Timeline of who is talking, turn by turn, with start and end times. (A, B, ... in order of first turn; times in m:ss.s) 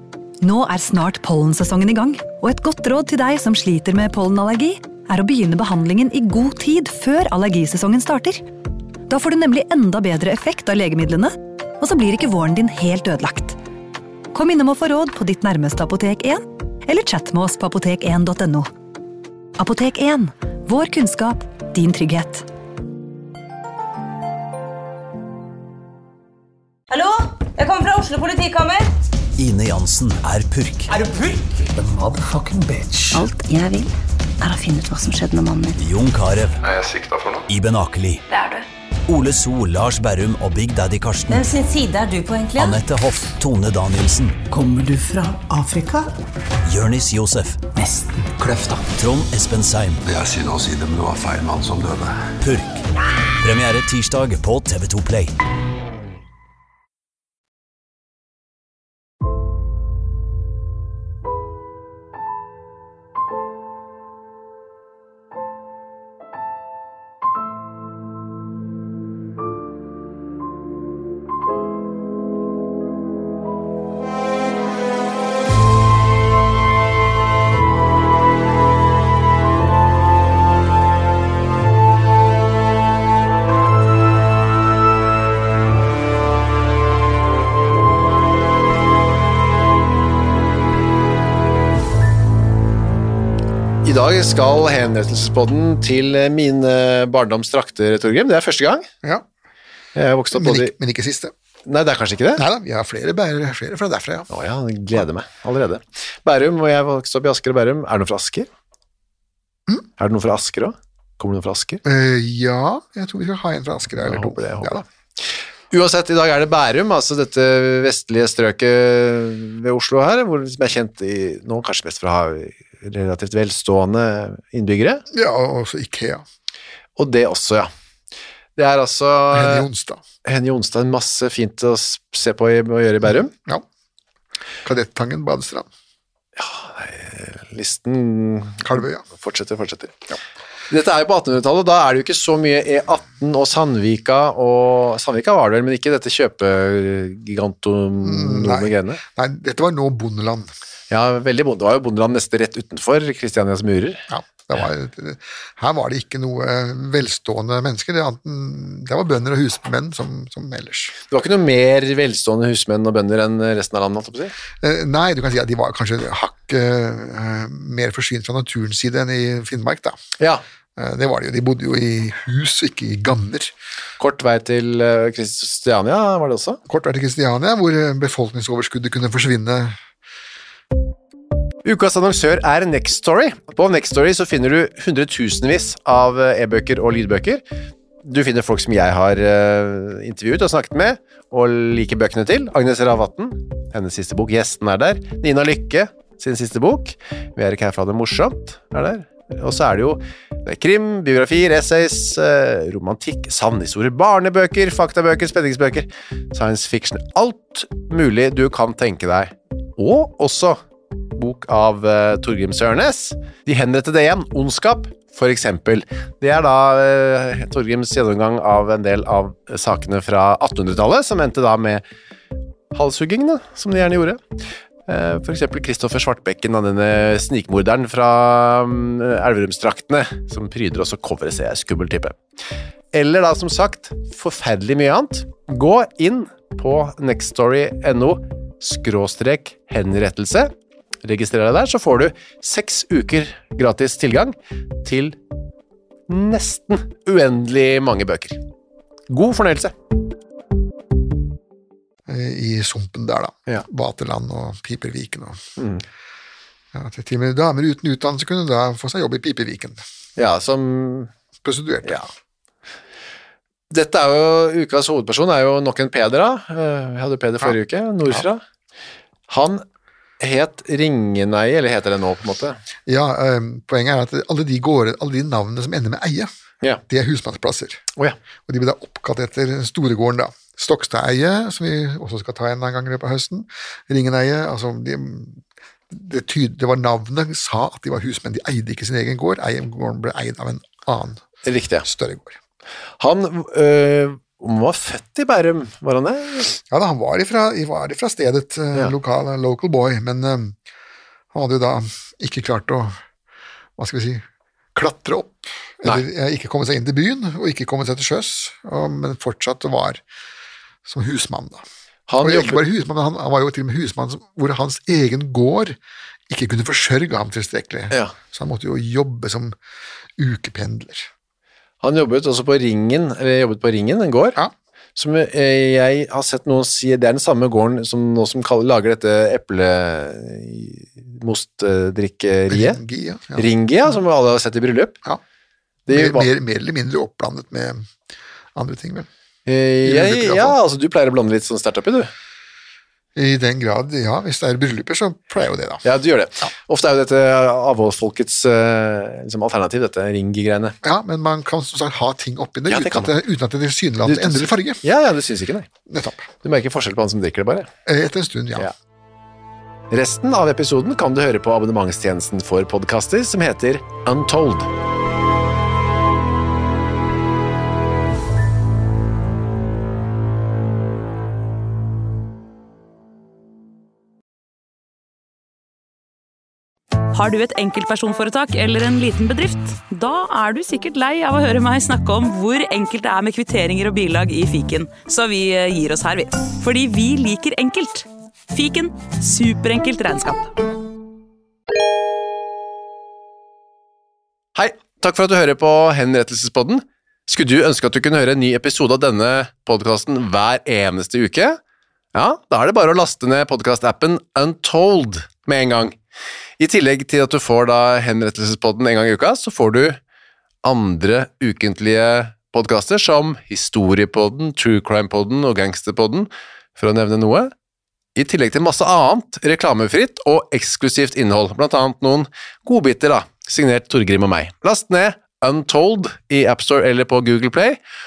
0:00.4-0:08.4 A
0:09.1-0:13.6 A
0:14.3-0:18.7 A
0:19.6-0:22.4 A
0:26.9-0:28.8 B
0:29.4-0:30.9 C
0:31.8-0:32.9 D
0:33.1-0:35.8 E
0:35.8-0:36.6 C
0:36.7-0:37.4 F
0:37.5-0:38.2 C
0:39.1-0:41.5 C
0:41.3-0:42.6 B
0:42.5-0:42.8 E
0:42.6-0:44.4 C
0:44.5-0:46.0 D
0:46.6-0:47.6 C
0:47.8-0:48.8 D
0:48.8-0:50.0 C
0:50.0-0:52.2 F
0:52.4-0:52.8 C
0:53.4-0:55.3 C
1:33.8-1:38.9 G
1:40.0-1:40.7 G
1:40.3-1:41.3 H
1:41.6-1:42.4 G
1:42.4-1:44.3 H
1:44.3-1:48.5 G
1:50.0-1:51.8 G
1:51.8-1:54.8 H
1:53.9-1:54.8 G
1:55.7-2:05.0 G
2:05.1-2:06.2 H
2:07.0-2:07.7 G
2:08.6-2:09.7 G
2:09.3-2:10.0 H
2:10.2-2:13.3 G
2:13.2-2:13.6 H
2:14.6-2:15.7 H
2:16.4-2:20.1 G
2:18.6-2:19.0 H
2:20.7-2:29.0 G
2:28.0-2:30.5 H
2:30.9-2:34.0 G
2:34.1-2:41.0 H
2:41.1-2:44.3 G
2:44.6-2:50.0 H
2:50.8-2:53.5 H
2:54.0-2:56.6 G
2:56.7-2:59.7 H
3:01.6-3:07.4 G
3:08.0-3:30.6 G
3:31.1-3:41.8 G
3:42.7-3:44.2 G
3:44.9-3:52.2 G
3:52.9-4:00.5 G
4:01.0-4:05.2 G
4:06.1-4:08.4 G
4:09.1-4:09.7 G
4:12.1-4:15.4 H
4:16.7-4:19.8 H
4:20.2-4:21.1 G
4:21.4-4:22.0 H
4:23.7-4:28.4 G
4:29.3-4:29.6 G
4:30.2-4:32.6 G
4:32.9-4:36.3 H
4:36.9-4:37.8 H
4:38.5-4:51.2 H
4:51.4-4:51.8 G
4:51.8-4:52.4 H
4:53.0-4:56.6 G
4:56.7-5:00.5 H
5:01.3-5:02.9 H
5:03.8-5:04.2 H
5:04.7-5:10.0 H
5:10.8-5:11.6 H
5:12.1-5:12.6 G
5:12.2-5:15.8 H
5:16.3-5:19.5 H
5:20.2-5:21.1 H
5:21.8-5:24.4 G
5:25.0-5:32.8 G
5:32.5-5:33.9 H
5:33.3-5:35.0 G
5:35.9-5:36.3 G
5:35.9-5:37.8 H
5:38.5-5:39.1 H
5:39.4-5:42.1 G
5:39.8-5:40.6 H
5:43.2-5:45.8 H
5:45.8-5:50.8 G
5:50.8-5:54.8 H
5:52.7-5:53.1 G
5:54.0-5:55.7 G
5:55.9-5:56.3 H
5:56.4-5:57.7 G
5:57.8-5:58.7 H
5:59.9-6:04.7 G
6:17.1-6:30.5 I
6:34.5-6:41.6 G
6:42.1-6:46.0 G
6:46.6-6:50.0 G
6:50.6-6:57.5 G
6:58.2-7:07.8 G